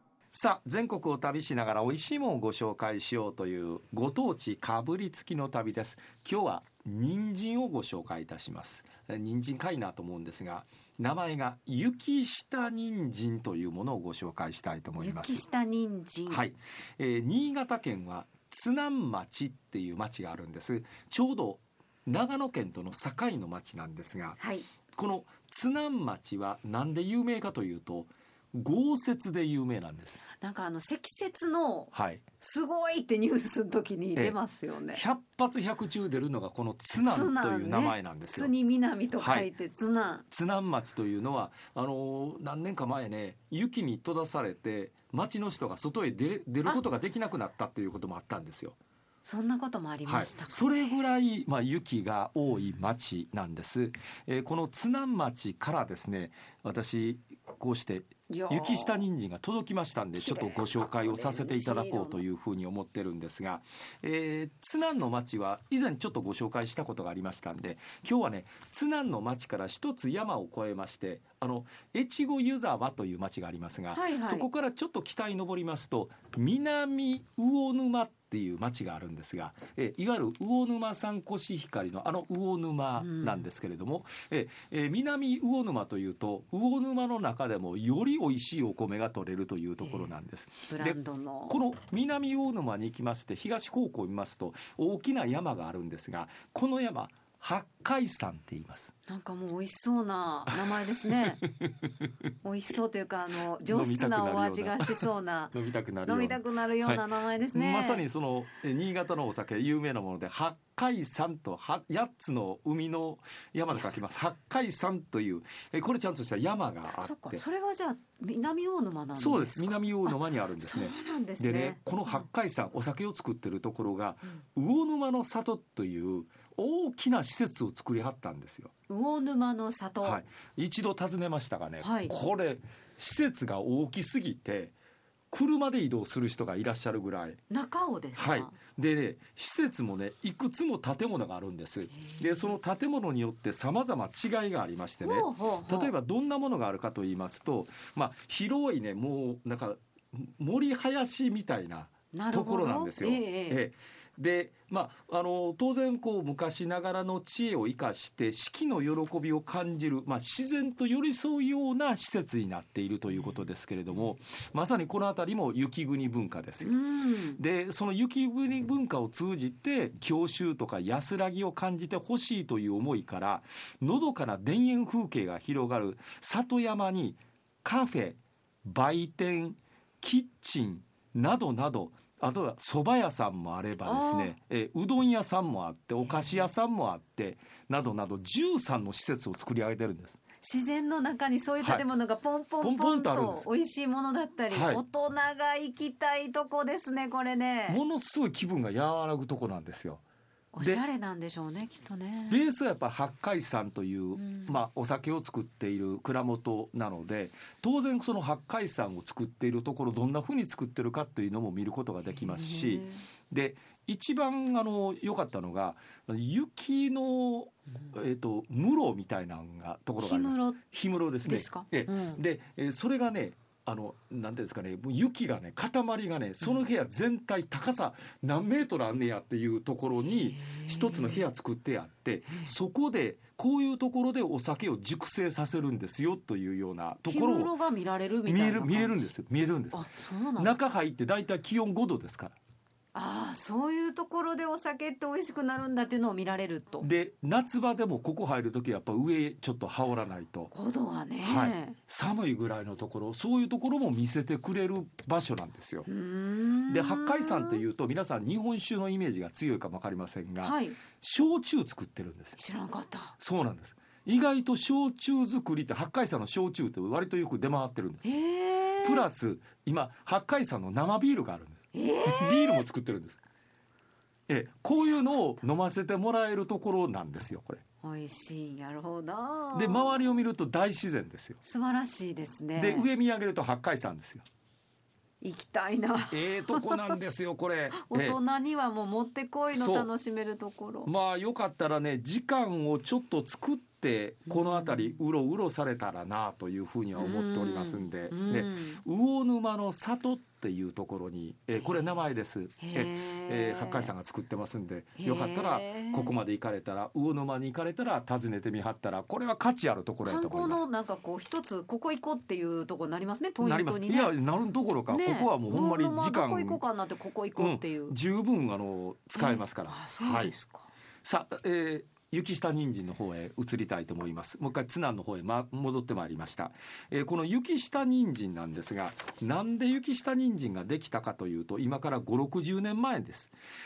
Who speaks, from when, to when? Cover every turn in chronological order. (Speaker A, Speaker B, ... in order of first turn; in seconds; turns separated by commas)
Speaker A: 0.3-15.4, Speaker B: 15.0-16.4, Speaker A: 16.3-24.4, Speaker B: 24.4-24.6, Speaker A: 24.9-30.2, Speaker B: 30.4-35.0, Speaker A: 31.9-32.2, Speaker A: 34.9-38.5, Speaker B: 37.0-40.2, Speaker A: 39.2-39.5, Speaker A: 40.3-48.8, Speaker B: 49.2-50.8, Speaker A: 50.0-98.9, Speaker B: 58.3-59.1, Speaker B: 60.1-62.2, Speaker B: 73.9-74.5, Speaker B: 83.0-83.4, Speaker B: 90.7-91.6, Speaker B: 99.1-101.4, Speaker A: 101.4-102.1, Speaker B: 102.4-108.0, Speaker A: 103.6-117.4, Speaker B: 117.0-121.8, Speaker A: 119.2-128.7, Speaker B: 128.9-130.2, Speaker A: 130.0-134.7, Speaker B: 131.8-132.1, Speaker A: 135.3-137.4, Speaker B: 137.5-138.6, Speaker A: 138.2-166.7, Speaker B: 145.0-145.9, Speaker B: 152.1-153.6, Speaker B: 166.6-167.4, Speaker A: 167.4-190.2, Speaker B: 183.8-184.3, Speaker B: 190.4-197.8, Speaker A: 192.6-193.4, Speaker A: 194.5-194.8, Speaker A: 197.7-200.0, Speaker B: 200.5-202.4, Speaker A: 202.3-237.5, Speaker B: 204.2-204.5, Speaker B: 212.3-213.0, Speaker B: 220.0-220.6, Speaker B: 221.2-222.2, Speaker B: 230.2-231.2, Speaker B: 237.1-239.1, Speaker A: 238.2-239.8, Speaker B: 239.7-240.6, Speaker A: 240.4-242.3, Speaker B: 242.9-246.9, Speaker A: 246.8-250.5, Speaker B: 250.5-251.8, Speaker A: 251.2-255.9, Speaker B: 255.9-257.6, Speaker A: 256.7-262.4, Speaker B: 260.4-260.8, Speaker B: 262.4-263.1, Speaker A: 263.2-268.0, Speaker B: 268.0-269.1, Speaker A: 268.8-273.2, Speaker B: 271.7-272.6, Speaker A: 274.3-277.6, Speaker B: 277.8-280.2, Speaker A: 279.5-281.4, Speaker B: 281.4-282.9, Speaker A: 282.5-284.2, Speaker B: 285.2-287.0, Speaker A: 286.1-288.2, Speaker B: 287.7-290.9, Speaker A: 289.5-289.9, Speaker A: 290.8-310.6, Speaker B: 294.3-294.9, Speaker B: 296.9-298.8, Speaker B: 302.6-303.9, Speaker B: 305.0-306.1, Speaker B: 310.0-314.1, Speaker A: 313.4-316.6, Speaker B: 314.9-317.9, Speaker A: 317.4-320.3, Speaker B: 319.2-320.7, Speaker A: 321.0-333.3